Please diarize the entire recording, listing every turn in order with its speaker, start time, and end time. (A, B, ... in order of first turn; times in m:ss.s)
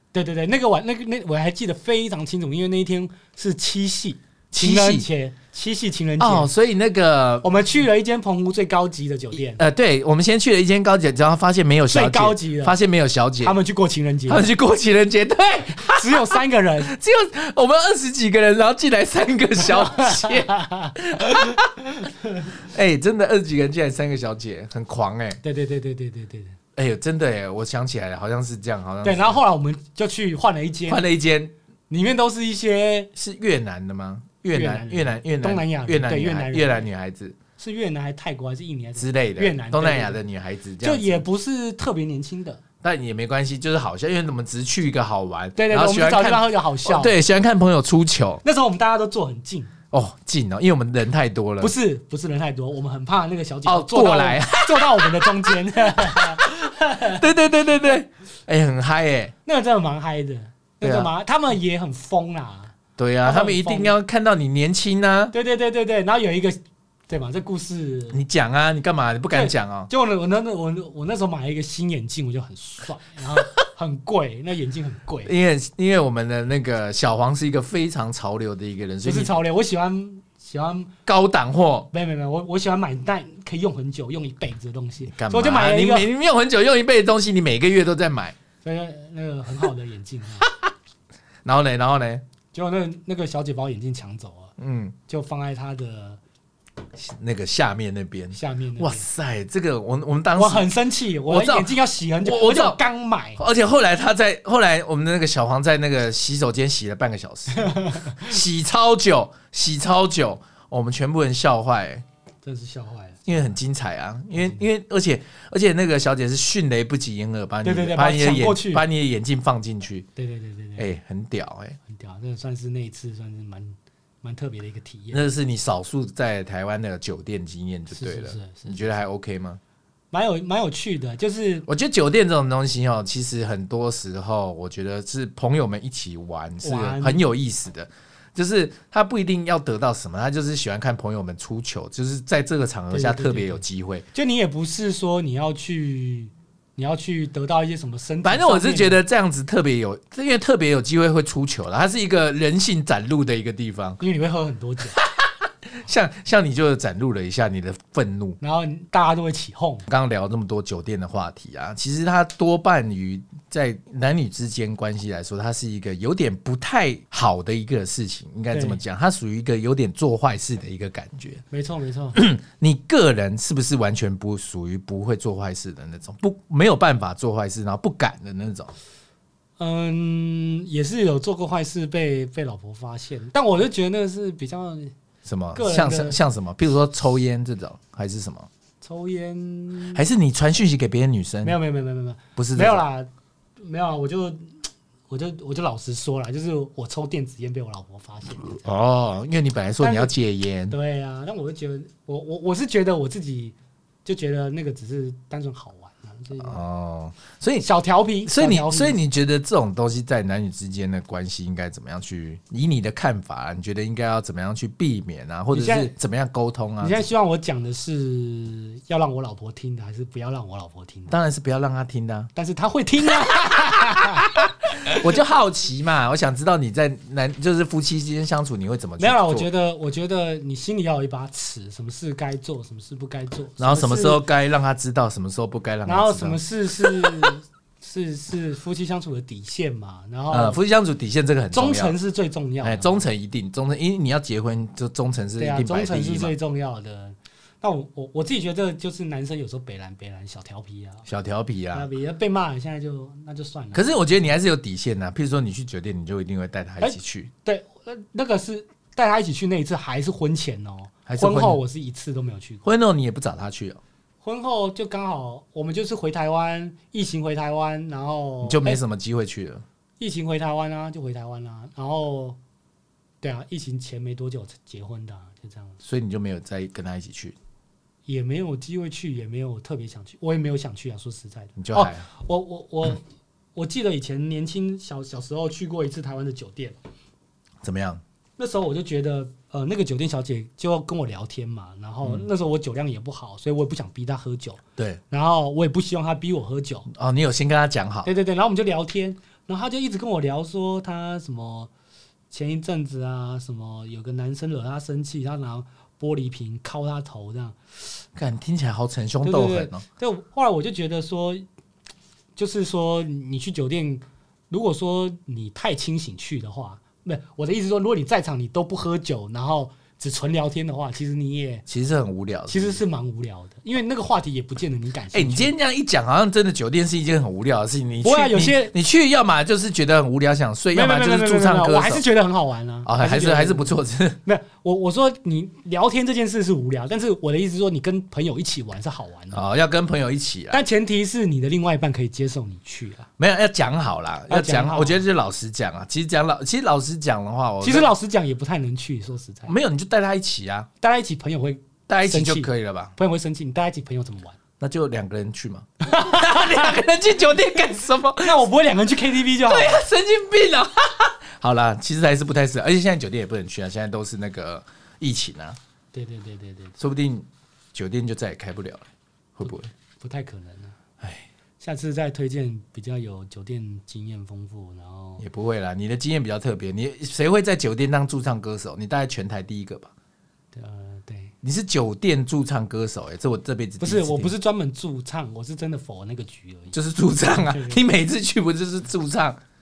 0:00.1-0:06.5 A
0:04.5-0:05.1 B
0:06.2-0:07.5 B
0:07.4-0:09.6 A
0:09.5-0:13.6 B
0:11.9-0:12.8 A
0:13.4-0:14.5 A
0:14.3-0:21.7 B
0:15.8-0:16.9 A
0:19.7-0:22.5 A
0:22.5-0:25.4 B
0:25.4-0:26.6 A
0:26.8-0:29.4 B
0:29.0-0:31.0 A
0:30.9-0:31.5 B
0:31.9-0:33.1 A
0:33.2-0:37.4 B
0:34.5-0:36.9 A
0:37.6-0:40.2 A
0:39.0-0:41.2 B
0:40.8-0:42.6 A
0:42.8-0:48.4 B
0:45.6-0:47.2 A
0:48.4-0:49.7 A
0:49.9-0:51.7 B
0:51.6-0:57.2 A
0:53.6-0:59.3 B
0:59.4-1:03.9 A
1:00.8-1:01.1 B
1:03.0-1:05.3 B
1:05.3-1:06.6 A
1:07.1-1:08.2 A
1:08.1-1:09.9 B
1:09.3-1:15.3 A
1:15.2-1:19.3 B
1:19.0-1:20.9 A
1:21.0-1:21.9 B
1:21.9-1:26.1 A
1:25.0-1:28.4 B
1:28.6-1:30.5 A
1:30.4-1:30.7 B
1:31.4-1:32.2 B
1:32.5-1:34.5 A
1:34.6-1:34.9 B
1:35.1-1:36.2 A
1:36.9-1:40.7 B
1:38.3-1:39.0 A
1:40.4-1:43.4 A
1:41.2-1:42.8 B
1:43.4-1:52.0 B
1:47.5-1:48.3 A
1:52.4-1:53.4 A
1:53.3-2:00.0 B
1:54.4-1:54.6 A
1:57.6-1:58.8 A
2:00.2-2:00.9 A
2:00.8-2:01.8 B
2:01.9-2:05.2 A
2:05.1-2:09.6 B
2:07.9-2:08.8 A
2:10.1-2:11.6 A
2:11.7-2:24.0 B
2:16.6-2:17.2 A
2:22.9-2:23.6 A
2:24.1-2:29.0 A
2:28.2-2:34.0 B
2:34.0-2:35.0 A
2:35.0-2:38.4 B
2:38.4-2:39.9 A
2:39.9-2:51.4 B
2:48.5-2:48.8 A
2:51.5-2:52.2 A
2:52.1-2:58.7 B
2:59.6-3:04.9 A
3:05.2-3:08.5 B
3:05.5-3:06.2 A
3:08.8-3:10.0 A
3:09.9-3:11.6 B
3:11.4-3:13.1 A
3:12.4-3:12.8 B
3:13.6-3:14.5 A
3:15.1-3:18.6 A
3:18.5-3:20.7 B
3:19.8-3:20.1 A
3:20.7-3:26.6 A
3:26.4-3:27.7 B
3:27.6-3:29.0 A
3:28.2-3:37.0 B
3:35.5-3:35.9 A
3:36.8-3:41.2 A
3:41.1-3:42.3 B
3:42.3-3:45.2 A
3:43.2-3:49.5 B
3:49.0-3:54.2 A
3:53.6-3:57.3 B
3:55.8-4:00.6 A
4:00.3-4:02.0 B
4:01.5-4:03.0 A
4:02.6-4:06.3 B
4:05.4-4:11.0 A
4:11.0-4:11.9 B
4:11.7-4:14.3 A
4:13.7-4:17.3 B
4:16.8-4:22.6 A
4:21.1-4:21.6 B
4:22.6-4:23.8 B
4:24.2-4:28.8 A
4:28.4-4:29.6 B
4:30.0-4:32.4 A
4:33.2-4:35.8 A
4:35.8-4:37.3 B
4:38.1-4:43.0 A
4:41.6-4:42.0 B
4:43.5-4:46.8 A
4:47.6-4:48.0 B
4:48.4-4:56.9 A
4:56.9-4:58.1 B
4:58.0-5:01.7 A
5:02.3-5:07.6 A
5:08.2-5:09.8 B
5:09.2-5:11.4 A
5:12.4-5:21.6 A
5:21.7-5:22.8 B
5:22.5-5:25.5 A
5:25.1-5:32.0 B
5:28.0-5:28.7 A
5:30.7-5:33.7 A
5:32.8-5:34.2 B
5:34.2-5:39.4 A
5:39.3-5:40.6 B
5:40.5-5:43.1 A
5:43.2-5:47.9 B
5:44.3-5:45.0 A
5:47.6-5:49.5 A
5:49.5-5:50.7 B
5:50.8-5:54.4 A
5:51.9-5:52.9 B
5:54.6-5:58.4 B
5:55.8-5:56.8 A
5:58.2-5:59.8 A
5:59.4-6:05.6 B
6:05.9-6:06.8 A
6:06.8-6:09.7 B
6:10.0-6:10.8 A
6:11.0-6:11.3 B
6:11.6-6:15.2 A
6:15.2-6:19.9 B
6:20.5-6:21.3 A
6:21.4-6:24.3 B
6:23.8-6:27.8 A
6:26.7-6:29.4 B